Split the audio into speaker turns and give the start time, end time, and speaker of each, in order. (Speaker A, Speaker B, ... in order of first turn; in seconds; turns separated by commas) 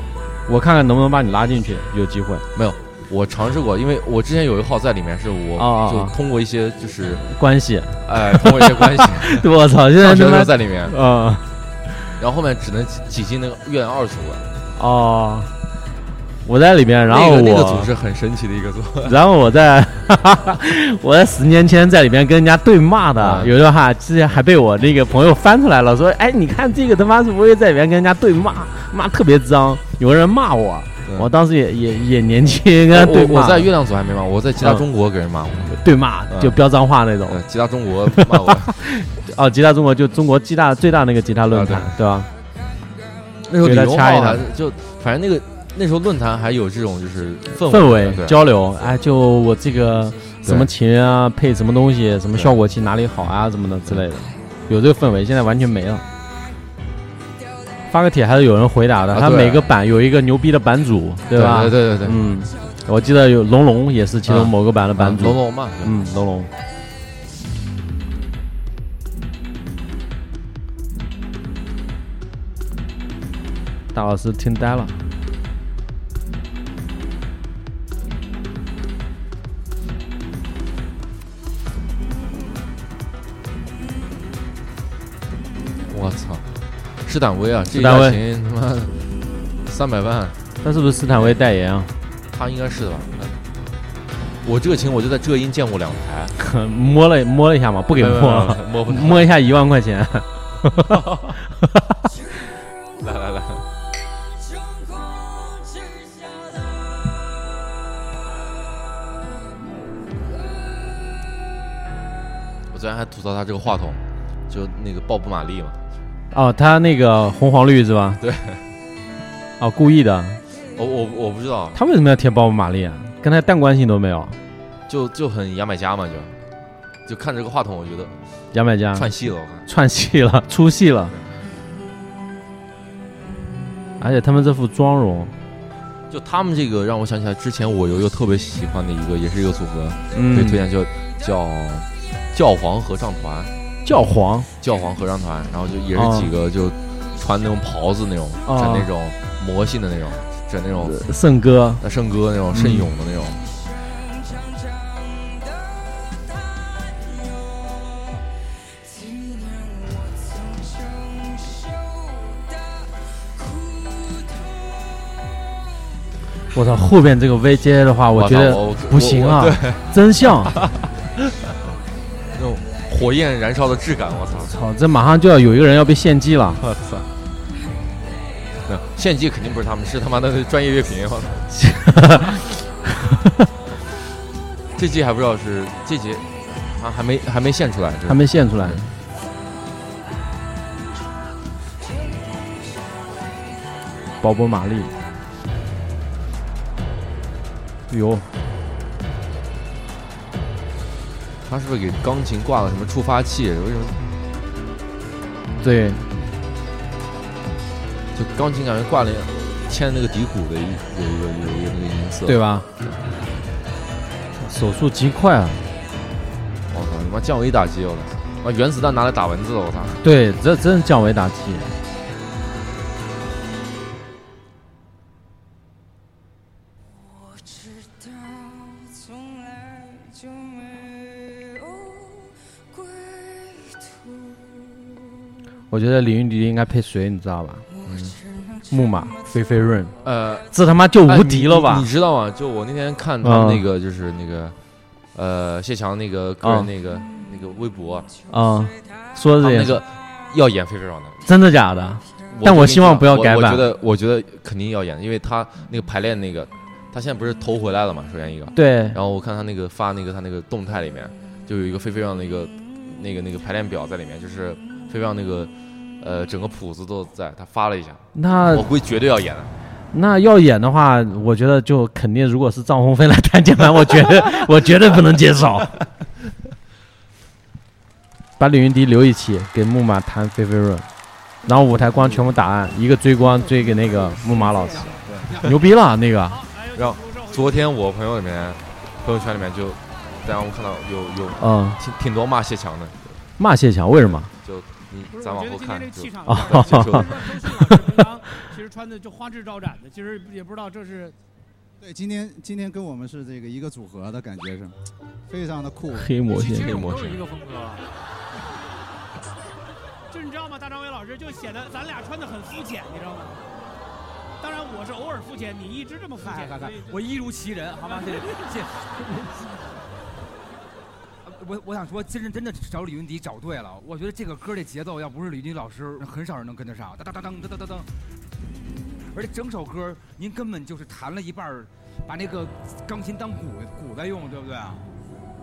Speaker A: 0.5-2.5, Speaker B: 2.5-7.3, Speaker A: 5.6-6.1, Speaker A: 7.3-11.4, Speaker B: 8.1-9.5, Speaker B: 10.0-11.0, Speaker B: 12.2-14.5, Speaker A: 14.8-15.5, Speaker A: 16.4-17.9, Speaker B: 17.1-19.2, Speaker A: 19.1-33.7, Speaker B: 23.2-23.5, Speaker B: 32.9-35.8, Speaker A: 34.6-34.9, Speaker A: 35.7-37.4, Speaker B: 36.3-36.6, Speaker B: 37.3-38.8, Speaker A: 38.2-42.3, Speaker B: 41.5-41.9, Speaker B: 43.5-48.4, Speaker A: 43.6-44.5, Speaker A: 47.7-56.0, Speaker B: 50.4-50.7, Speaker A: 57.9-66.5, Speaker B: 59.1-59.7, Speaker B: 61.3-62.2, Speaker B: 64.3-66.0, Speaker A: 73.9-75.0, Speaker B: 85.9-86.5, Speaker B: 87.0-90.4, Speaker A: 87.7-88.2, Speaker A: 90.6-91.9, Speaker B: 92.3-93.4, Speaker B: 94.4-96.3, Speaker A: 96.4-101.0, Speaker B: 98.0-99.3, Speaker B: 100.9-101.3, Speaker B: 103.0-103.7, Speaker B: 112.7-115.8, Speaker A: 116.3-118.2, Speaker B: 118.2-118.6, Speaker A: 119.6-120.4, Speaker B: 120.8-121.8, Speaker A: 121.7-124.4, Speaker B: 124.9-126.3, Speaker B: 127.1-128.2, Speaker A: 128.5-129.1, Speaker B: 128.9-129.7, Speaker A: 129.7-131.2, Speaker A: 134.0-135.3, Speaker B: 136.1-143.5, Speaker A: 140.2-140.6, Speaker A: 143.8-144.5, Speaker B: 144.6-151.0, Speaker A: 145.9-146.3, Speaker A: 148.5-148.9, Speaker A: 150.8-151.8, Speaker B: 151.8-153.4, Speaker A: 152.5-152.9, Speaker A: 166.5-170.6, Speaker B: 168.2-171.6, Speaker B: 172.3-174.5, Speaker A: 174.5-176.6, Speaker B: 176.6-177.1, Speaker B: 178.7-181.5, Speaker A: 181.5-182.5, Speaker B: 184.8-188.8, Speaker A: 188.1-188.9, Speaker A: 194.2-194.9, Speaker A: 197.9-198.3, Speaker B: 201.5-204.0, Speaker A: 205.6-206.0, Speaker B: 208.1-212.9, Speaker A: 212.3-212.7, Speaker A: 214.4-215.7, Speaker B: 216.7-220.0, Speaker A: 220.0-221.8, Speaker A: 235.7-237.7, Speaker B: 237.8-238.2, Speaker A: 238.7-240.0, Speaker B: 240.0-240.5, Speaker A: 240.5-241.9, Speaker B: 241.0-244.6, Speaker A: 243.2-243.7, Speaker B: 245.1-248.1, Speaker A: 246.4-246.7, Speaker A: 248.3-249.8, Speaker B: 249.4-251.3, Speaker A: 251.3-253.7, Speaker B: 252.3-269.5, Speaker A: 258.6-259.0, Speaker A: 268.1-268.7, Speaker A: 269.9-275.8, Speaker A: 278.4-280.9, Speaker A: 281.5-286.4, Speaker C: 286.3-287.7, Speaker B: 286.8-293.2, Speaker A: 291.4-291.8, Speaker A: 293.4-294.3, Speaker B: 294.3-297.3, Speaker C: 295.1-301.2, Speaker A: 296.3-297.1, Speaker D: 301.8-304.8, Speaker D: 305.3-306.1, Speaker A: 305.9-306.9, Speaker C: 306.4-307.8, Speaker B: 306.5-307.2, Speaker C: 310.1-313.4, Speaker C: 314.4-316.9, Speaker E: 316.2-319.2, Speaker C: 317.9-318.3, Speaker E: 321.2-327.9, Speaker E: 329.1-334.9